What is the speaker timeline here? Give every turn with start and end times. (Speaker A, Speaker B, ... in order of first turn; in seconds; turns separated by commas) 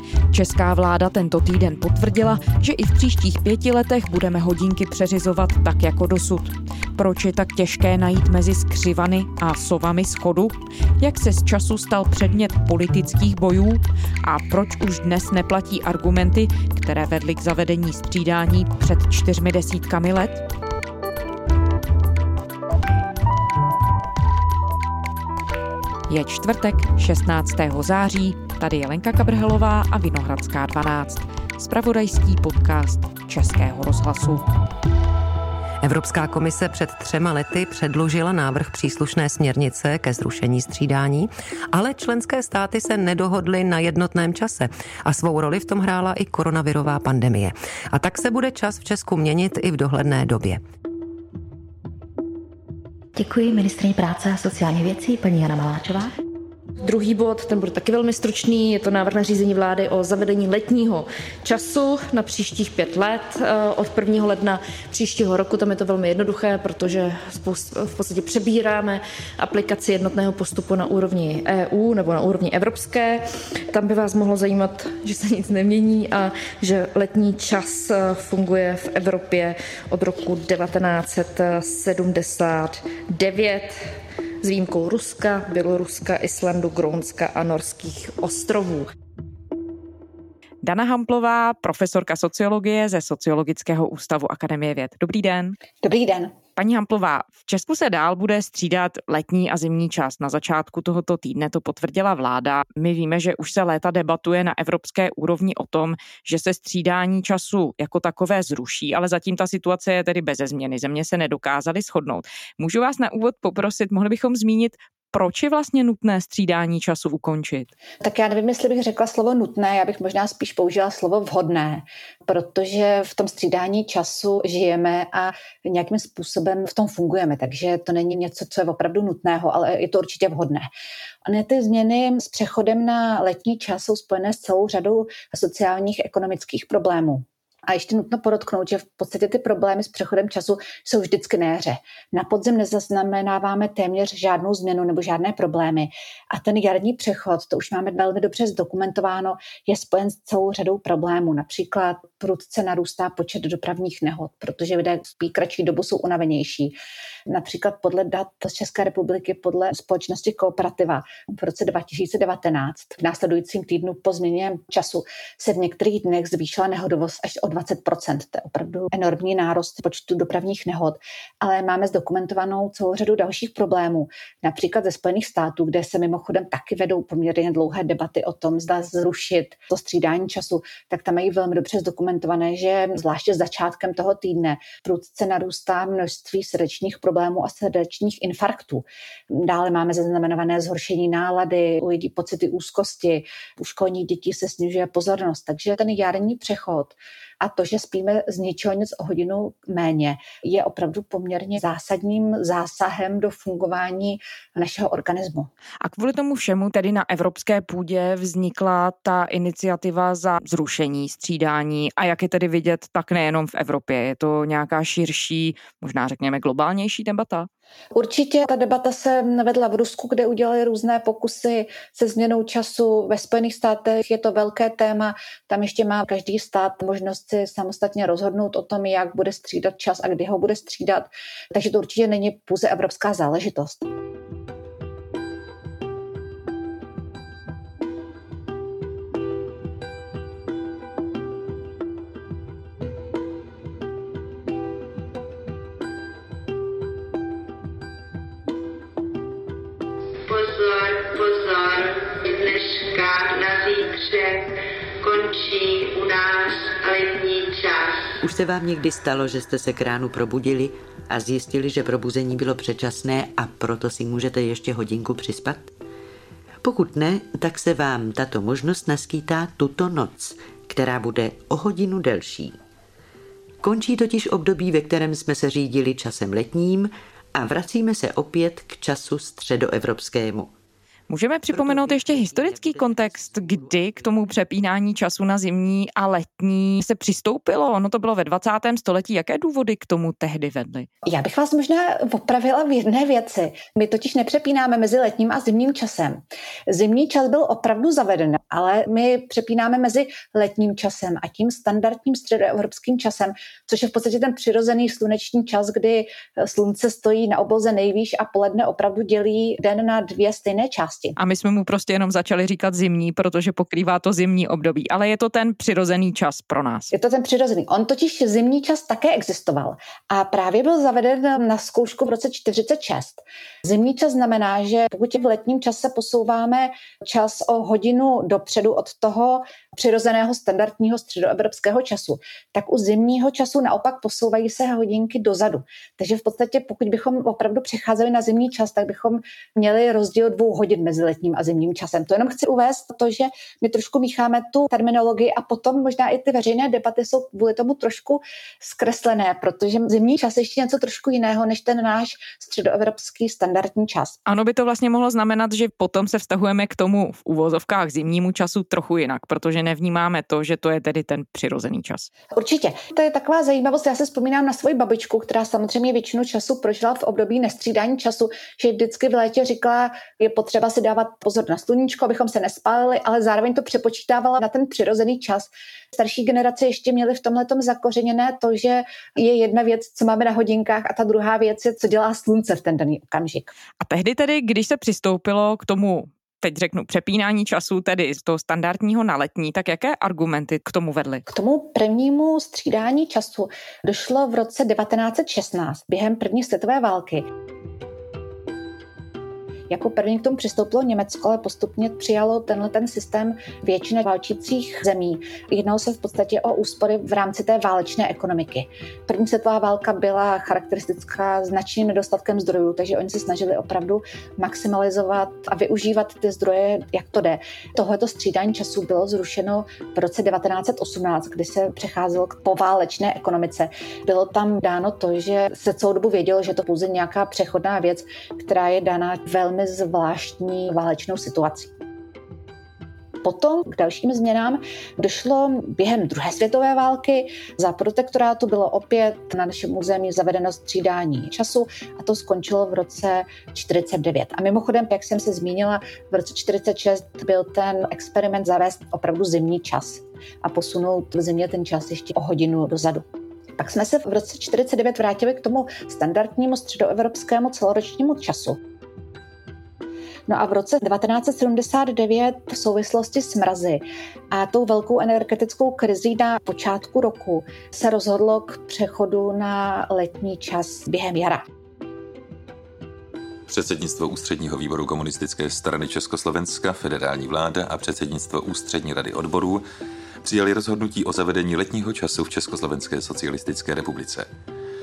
Speaker A: 0.3-20.4, Speaker A: 26.1-34.5, Speaker B: 35.8-50.6, Speaker C: 53.1-56.1, Speaker D: 56.8-88.9, Speaker A: 90.6-95.6, Speaker E: 95.8-96.3, Speaker A: 96.6-117.7, Speaker E: 118.0-130.7, Speaker E: 131.2-156.7, Speaker E: 157.3-205.5, Speaker A: 205.8-217.5, Speaker E: 217.9-233.8, Speaker F: 250.3-258.1, Speaker G: 258.2-265.7, Speaker G: 266.6-272.6, Speaker G: 273.6-280.5, Speaker A: 281.1-290.9, Speaker G: 281.5-284.2, Speaker E: 291.0-311.1, Speaker A: 311.1-316.9, Speaker E: 316.9-354.2, Speaker A: 354.2-362.1, Speaker E: 362.3-383.5, Speaker A: 383.8-391.2, Speaker E: 391.3-397.2, Speaker E: 399.7-431.7, Speaker E: 433.2-453.0, Speaker E: 453.6-458.6, Speaker E: 460.3-471.4, Speaker H: 473.5-479.6, Speaker H: 480.2-484.3